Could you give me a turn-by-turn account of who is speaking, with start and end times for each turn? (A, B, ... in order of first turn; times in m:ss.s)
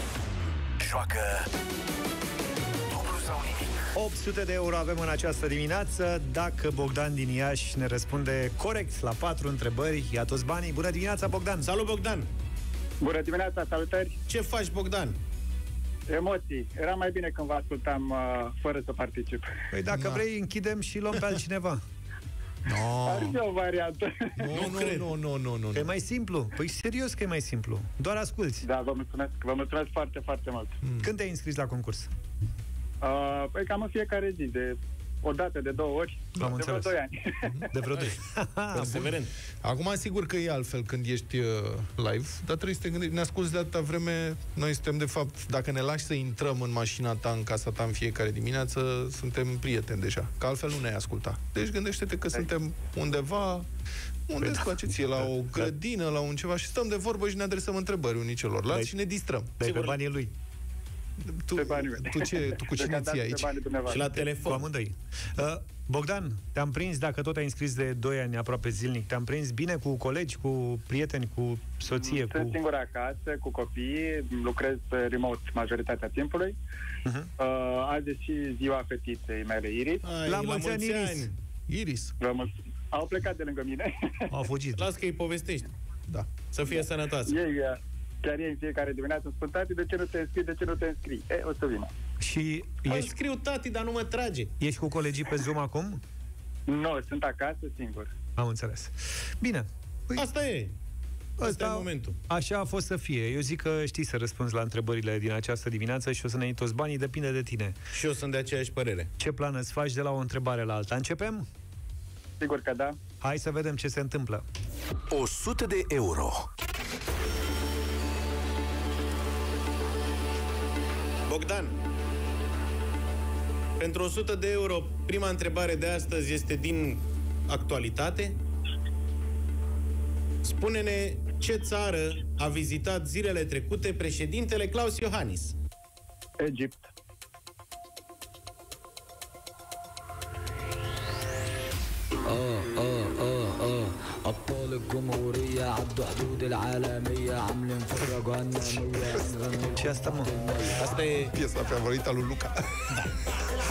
0:00.8-0:01.5 A
0:02.9-0:03.7 A
0:03.9-0:11.7 B
0:11.6-0:12.3 C
0:13.0-0:14.1 D
0:14.3-0:15.2 C
0:16.1-0:19.5 D
0:19.7-0:21.8 B
0:19.9-0:20.2 E
0:22.6-0:23.4 E
0:23.0-0:24.5 D
0:24.4-0:25.9 E
0:24.5-0:25.1 C
0:25.7-0:28.6 B
0:28.6-0:30.8 D
0:30.8-0:31.1 E
0:31.0-0:32.1 B
0:33.0-0:37.7 D
0:36.4-0:36.9 B
0:37.7-0:39.1 B
0:38.7-0:39.3 C
0:39.6-0:53.6 E
0:54.3-0:59.6 E
0:54.4-0:55.3 B
0:59.6-1:00.3 B
1:01.2-1:04.2 E
1:01.6-1:04.1 D
1:03.9-1:04.7 C
1:04.4-1:12.6 B
1:11.9-1:16.6 D
1:17.4-1:20.0 D
1:20.0-1:21.3 C
1:20.2-1:21.3 B
1:21.7-1:22.2 E
1:22.2-1:24.3 D
1:24.3-1:24.8 B
1:24.8-1:25.7 C
1:26.5-1:27.3 C
1:26.7-1:31.9 D
1:32.2-1:33.1 B
1:32.8-1:34.5 C
1:34.6-1:36.0 B
1:36.7-1:38.1 D
1:38.4-1:40.2 B
1:40.2-1:40.7 C
1:41.4-1:47.8 B
1:41.4-1:42.2 C
1:47.9-1:49.1 C
1:49.2-1:51.4 B
1:52.4-1:53.0 D
1:53.2-1:54.4 B
1:55.1-1:56.5 A
2:01.3-2:01.8 C
2:03.8-2:08.4 C
2:10.4-2:15.6 C
2:16.4-2:16.9 D
2:22.2-2:30.8 F
2:29.7-2:30.3 B
2:30.8-2:31.3 C
2:31.3-2:32.8 E